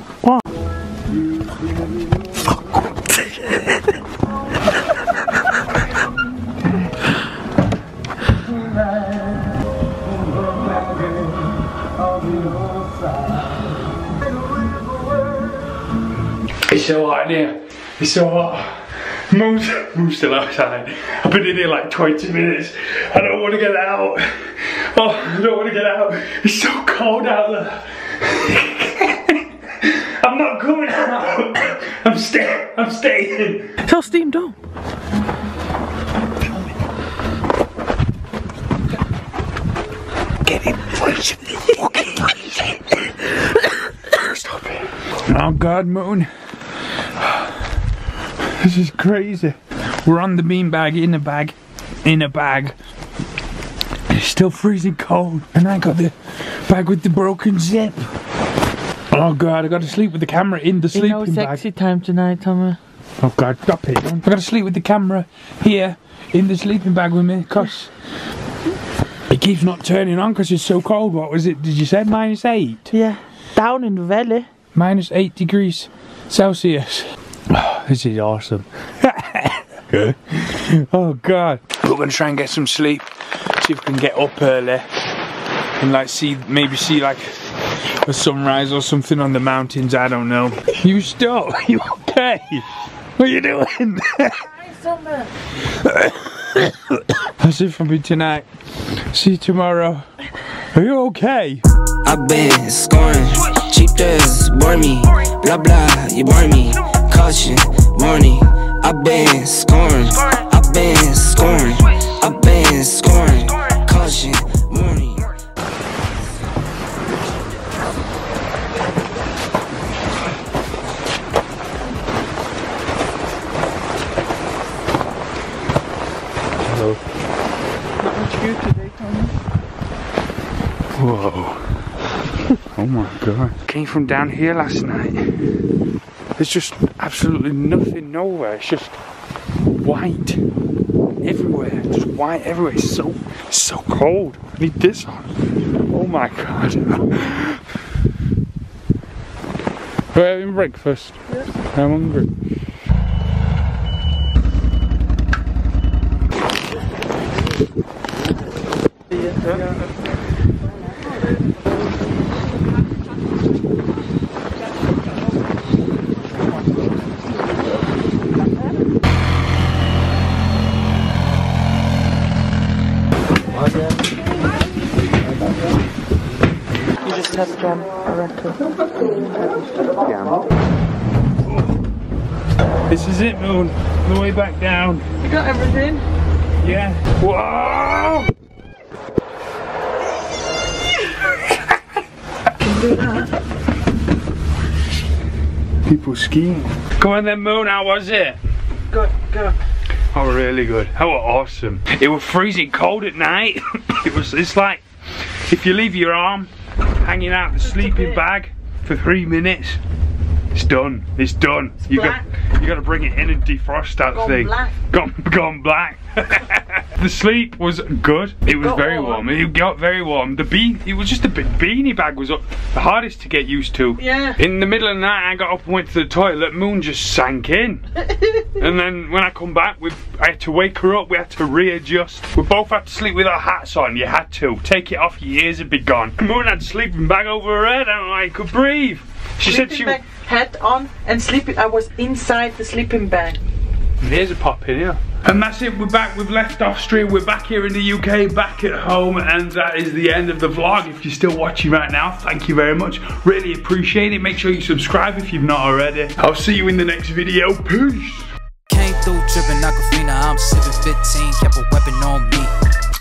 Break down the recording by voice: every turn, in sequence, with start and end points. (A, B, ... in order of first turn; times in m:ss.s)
0:16.7-0:33.8 A
0:33.8-0:34.6 B
0:40.4-0:42.8 A
0:44.1-0:46.3 A
0:48.4-0:52.7 A
0:54.1-0:58.1 A
0:59.1-1:01.6 A
1:00.9-1:02.8 B
1:03.2-1:07.9 A
1:09.3-1:12.9 A
1:12.9-1:14.5 B
1:14.7-1:23.0 A
1:23.6-1:24.9 A
1:25.8-1:27.4 A
1:28.0-1:32.6 A
1:33.2-1:34.5 A
1:34.6-1:35.3 B
1:35.7-1:38.5 A
1:39.1-1:40.1 A
1:40.7-1:41.6 A
1:42.0-1:55.3 C
2:06.6-2:07.0 A
2:08.0-2:09.3 B
2:11.0-2:11.8 A
2:12.7-2:15.4 A
2:16.4-2:19.0 A
2:19.8-2:20.4 A
2:21.2-2:25.3 A
2:25.9-2:27.6 A
2:30.1-2:31.2 A
2:31.7-2:32.3 A
2:57.0-2:58.6 B
3:02.9-3:05.0 A
3:05.2-3:06.0 B
3:06.6-3:08.3 A
3:12.6-3:13.3 B
3:15.8-3:18.4 A
3:18.9-3:19.5 B
3:20.1-3:29.8 A
3:27.7-3:28.2 B
3:30.5-3:47.8 A
3:31.8-3:32.2 B
3:34.1-3:34.7 B
3:38.6-3:39.2 B
3:44.0-3:44.4 B
3:48.4-4:00.0 A
3:59.4-4:03.4 B
4:04.0-4:18.3 A
4:18.7-4:22.5 D